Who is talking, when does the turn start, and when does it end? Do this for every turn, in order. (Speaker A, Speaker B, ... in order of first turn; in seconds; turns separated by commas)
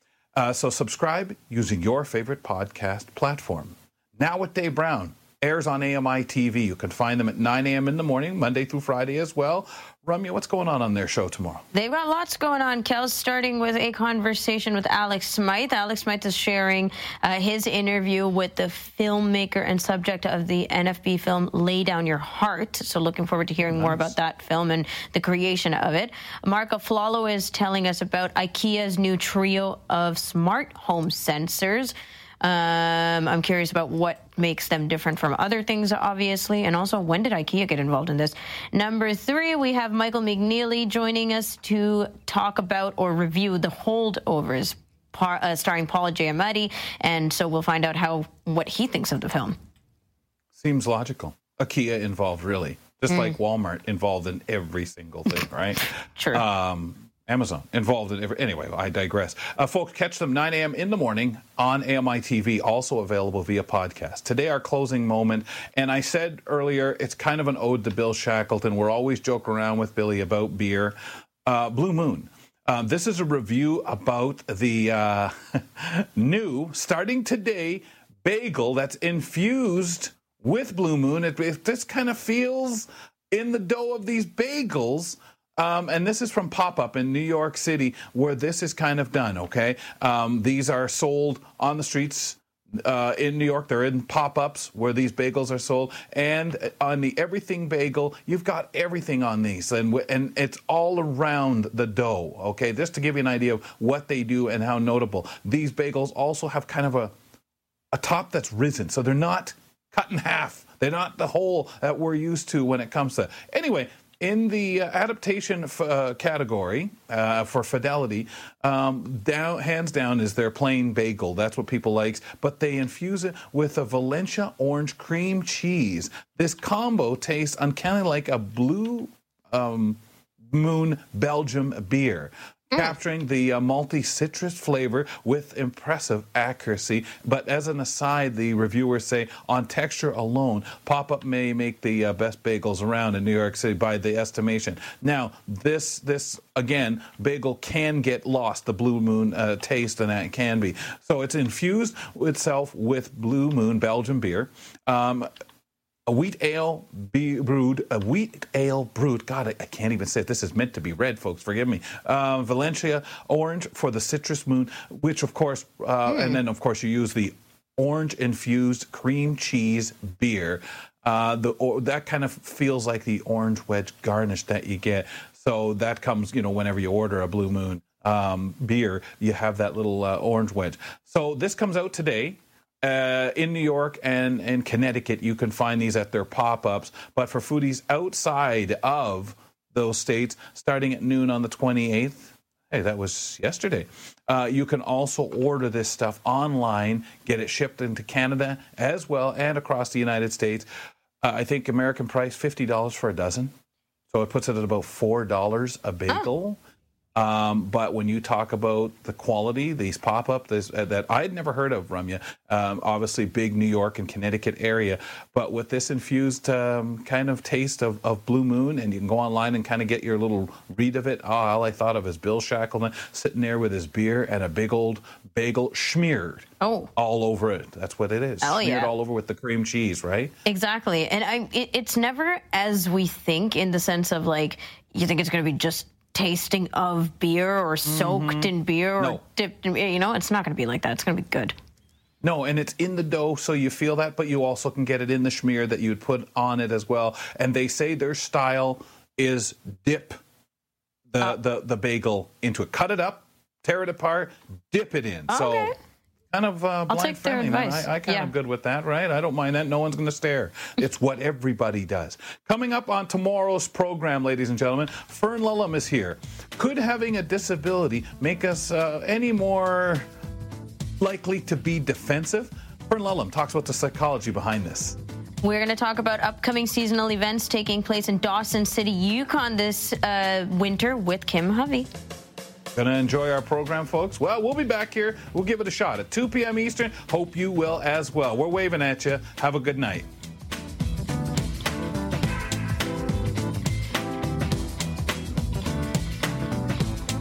Speaker A: 0.3-11.6, Speaker B: 11.7-49.5, Speaker A: 23.7-24.1, Speaker A: 50.5-107.1, Speaker B: 53.1-53.3, Speaker B: 56.1-56.4, Speaker A: 107.9-155.3, Speaker A: 156.1-200.7, Speaker B: 166.1-166.4, Speaker A: 201.2-203.5, Speaker A: 204.1-206.6, Speaker A: 207.1-230.3, Speaker B: 226.6-226.9, Speaker B: 228.4-228.9, Speaker B: 230.4-241.5, Speaker A: 237.8-239.2, Speaker A: 242.2-250.2, Speaker A: 251.1-255.7, Speaker B: 255.3-255.7, Speaker A: 256.3-270.1, Speaker B: 256.9-258.3, Speaker A: 271.0-275.0, Speaker B: 275.4-281.9, Speaker A: 282.7-290.1